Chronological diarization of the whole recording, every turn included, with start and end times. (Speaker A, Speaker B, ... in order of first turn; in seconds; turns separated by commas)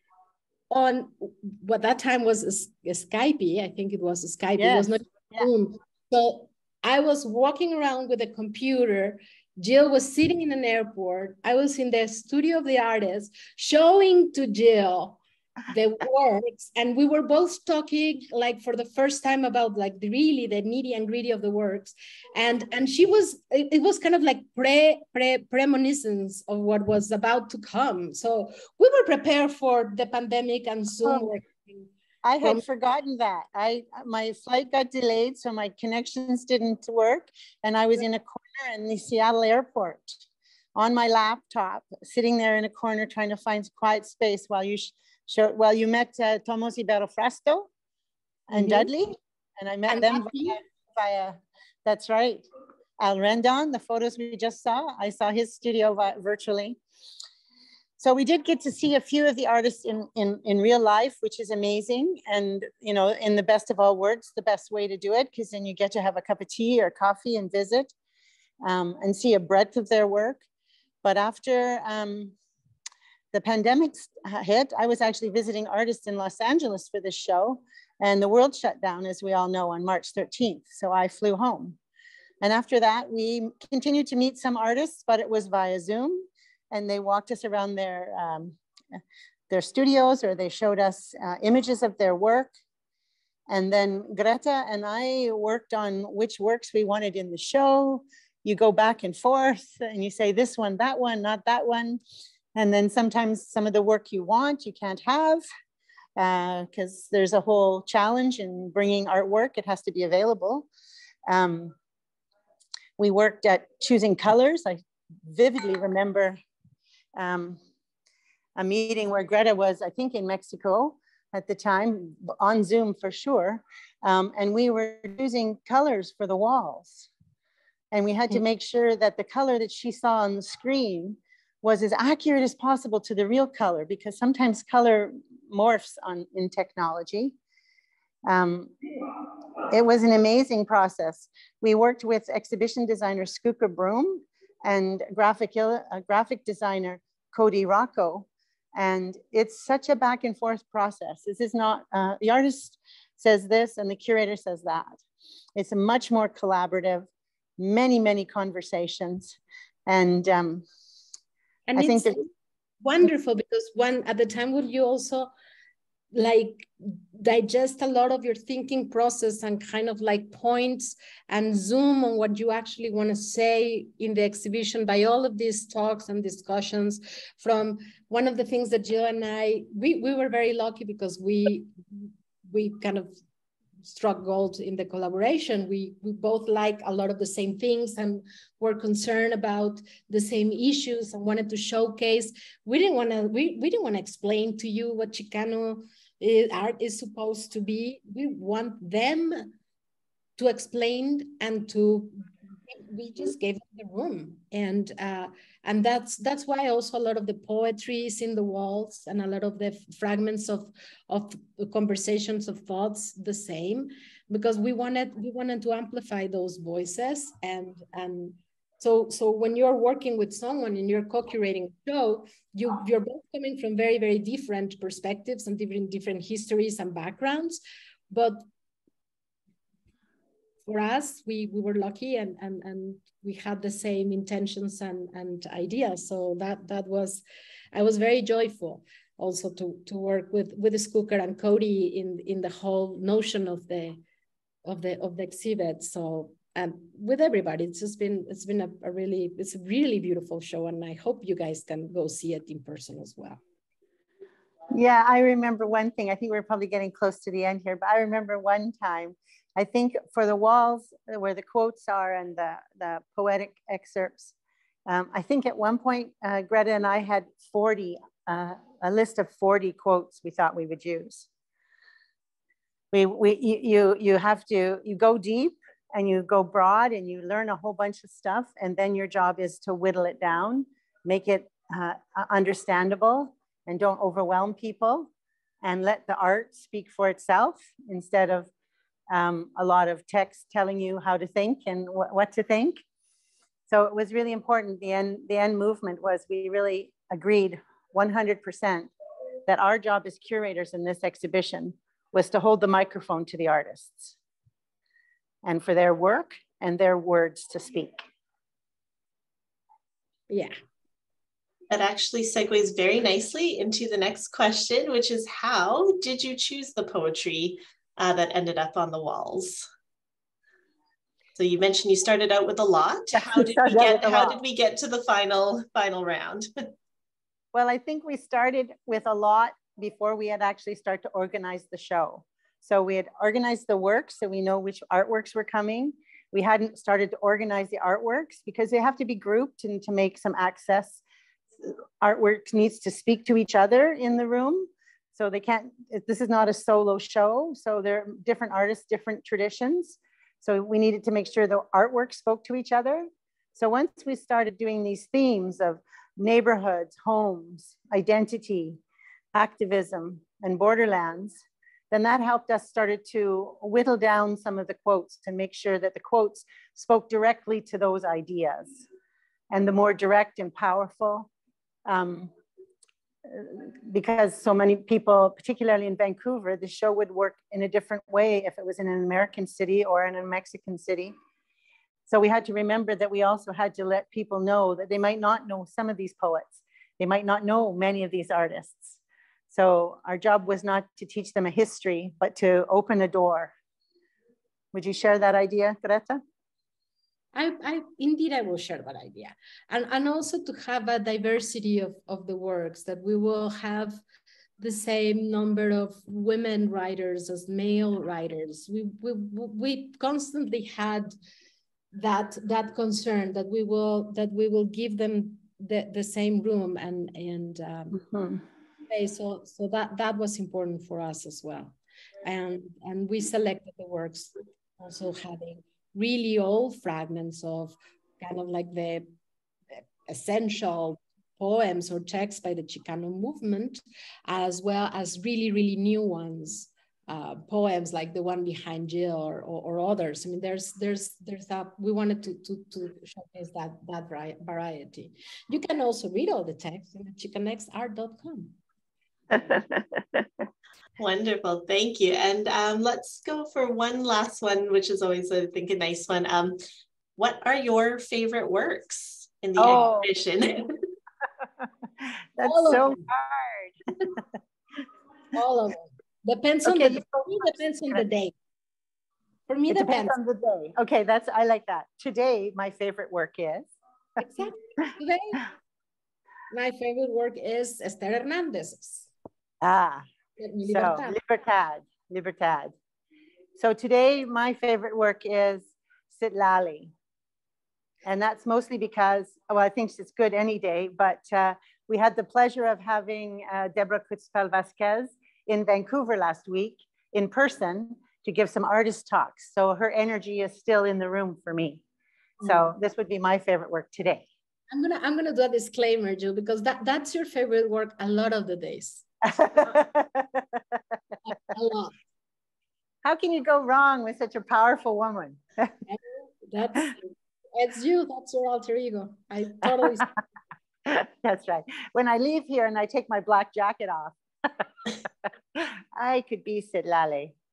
Speaker A: 0.7-31.9, Speaker B: 4.6-5.5, Speaker B: 32.2-40.2, Speaker B: 40.8-47.7, Speaker B: 48.5-52.4, Speaker A: 48.5-48.9, Speaker A: 49.9-50.6, Speaker B: 53.0-56.8, Speaker B: 58.0-67.9, Speaker B: 68.6-70.4, Speaker B: 71.0-72.3, Speaker B: 73.3-81.8, Speaker B: 82.4-88.6, Speaker B: 89.5-92.5, Speaker B: 93.5-102.0, Speaker B: 102.5-105.5, Speaker B: 106.2-110.7, Speaker B: 111.3-111.7, Speaker B: 113.0-116.4, Speaker B: 117.2-117.6, Speaker B: 118.6-127.1, Speaker B: 127.9-137.3, Speaker B: 138.3-155.0, Speaker B: 155.6-160.7, Speaker A: 161.7-162.3, Speaker B: 161.8-162.2, Speaker A: 162.8-165.3, Speaker A: 166.1-183.1, Speaker A: 183.8-199.5, Speaker A: 200.4-228.4, Speaker A: 230.7-244.0, Speaker A: 244.7-253.4, Speaker B: 254.7-264.3, Speaker B: 264.9-271.3, Speaker B: 272.9-285.1, Speaker B: 285.6-288.5, Speaker B: 289.1-292.8, Speaker B: 293.7-298.9, Speaker B: 299.5-304.2, Speaker B: 305.4-308.0, Speaker C: 311.7-319.7, Speaker C: 321.4-326.5, Speaker B: 323.1-324.4, Speaker B: 327.5-341.0, Speaker B: 341.6-358.8, Speaker B: 359.3-368.9, Speaker B: 369.5-371.3, Speaker B: 371.9-372.3, Speaker B: 373.3-381.1, Speaker B: 382.1-389.0, Speaker B: 389.5-393.5, Speaker B: 394.7-396.2, Speaker A: 397.3-404.0, Speaker A: 404.6-411.1, Speaker A: 411.9-418.0, Speaker B: 417.9-418.4, Speaker A: 418.9-429.1, Speaker A: 429.8-448.6, Speaker B: 449.4-449.8, Speaker C: 451.0-456.6, Speaker C: 457.2-460.7, Speaker B: 459.6-460.1, Speaker B: 462.0-463.8, Speaker A: 462.4-463.0, Speaker A: 465.3-468.3, Speaker B: 466.6-468.0, Speaker A: 469.5-470.2, Speaker B: 469.7-473.7, Speaker A: 474.2-475.5, Speaker A: 476.5-479.1, Speaker B: 479.6-480.1, Speaker A: 480.4-481.2, Speaker B: 480.6-482.7, Speaker B: 483.6-486.9, Speaker B: 488.1-501.8, Speaker A: 502.4-502.7, Speaker B: 502.4-504.3, Speaker A: 504.7-509.1, Speaker B: 509.3-510.8, Speaker A: 511.5-511.9, Speaker B: 513.0-515.7, Speaker A: 515.9-520.1, Speaker B: 520.9-524.6, Speaker B: 525.5-527.4